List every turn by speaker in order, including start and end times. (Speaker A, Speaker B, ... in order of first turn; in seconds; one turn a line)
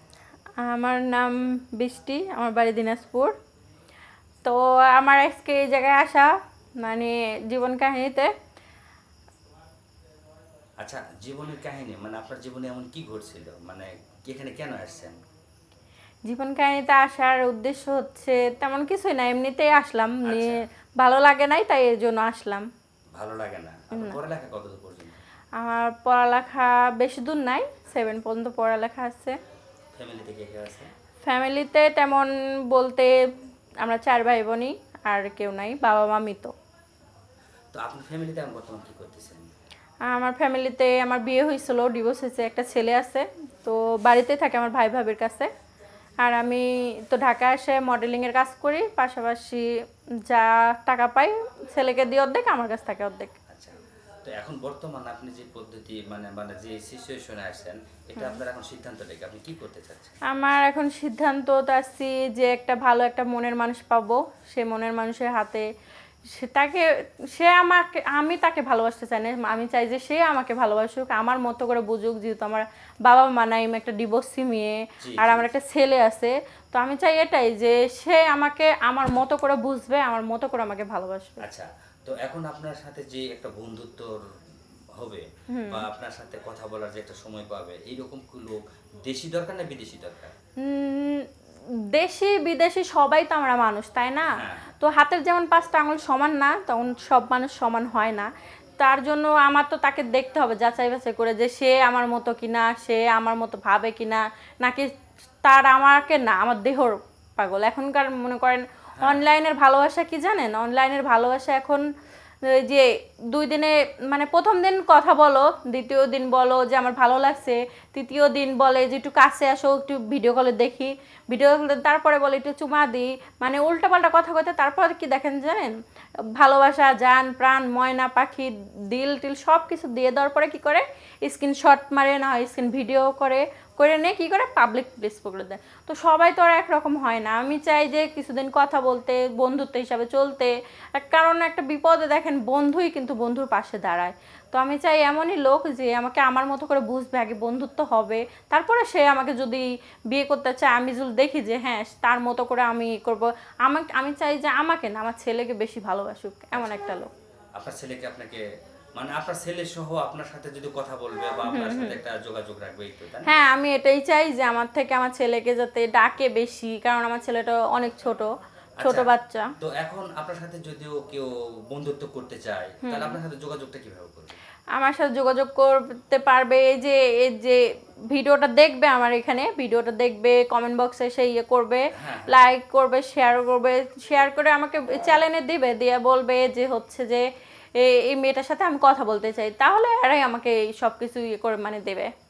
Speaker A: 0.6-3.3
Speaker A: 4.4-8.3
Speaker B: 10.8-15.2
Speaker A: 16.2-22.6
Speaker B: 20.2-20.6
Speaker B: 23.1-25.2
Speaker A: 23.9-24.2
Speaker A: 25.6-29.4
Speaker B: 29.9-30.9
Speaker A: 31.2-33.1
Speaker A: 33.8-36.5
Speaker B: 37.7-39.4
Speaker A: 40.0-45.5
Speaker A: 46.2-49.7
Speaker A: 50.3-53.4
Speaker B: 53.5-60.2
Speaker A: 60.2-65.7
Speaker A: 66.3-81.4
Speaker B: 75.0-75.5
Speaker B: 81.4-84.2
Speaker B: 85.0-90.3
Speaker A: 85.5-85.8
Speaker A: 90.6-91.3
Speaker A: 91.9-104.9
Speaker B: 94.2-94.7
Speaker A: 105.4-111.8
Speaker B: 109.0-109.2
Speaker A: 112.5-125.8
Speaker A: 126.3-157.1
Speaker B: 156.5-156.8
Speaker B: 157.6-158.4
Speaker B: 158.9-163.3
Speaker A: 161.5-162.0
Speaker A: 163.2-169.5
Speaker B: 168.8-169.1
Speaker B: 169.6-174.4
Speaker A: 172.8-173.2
Speaker A: 174.7-192.1
Speaker B: 181.9-182.4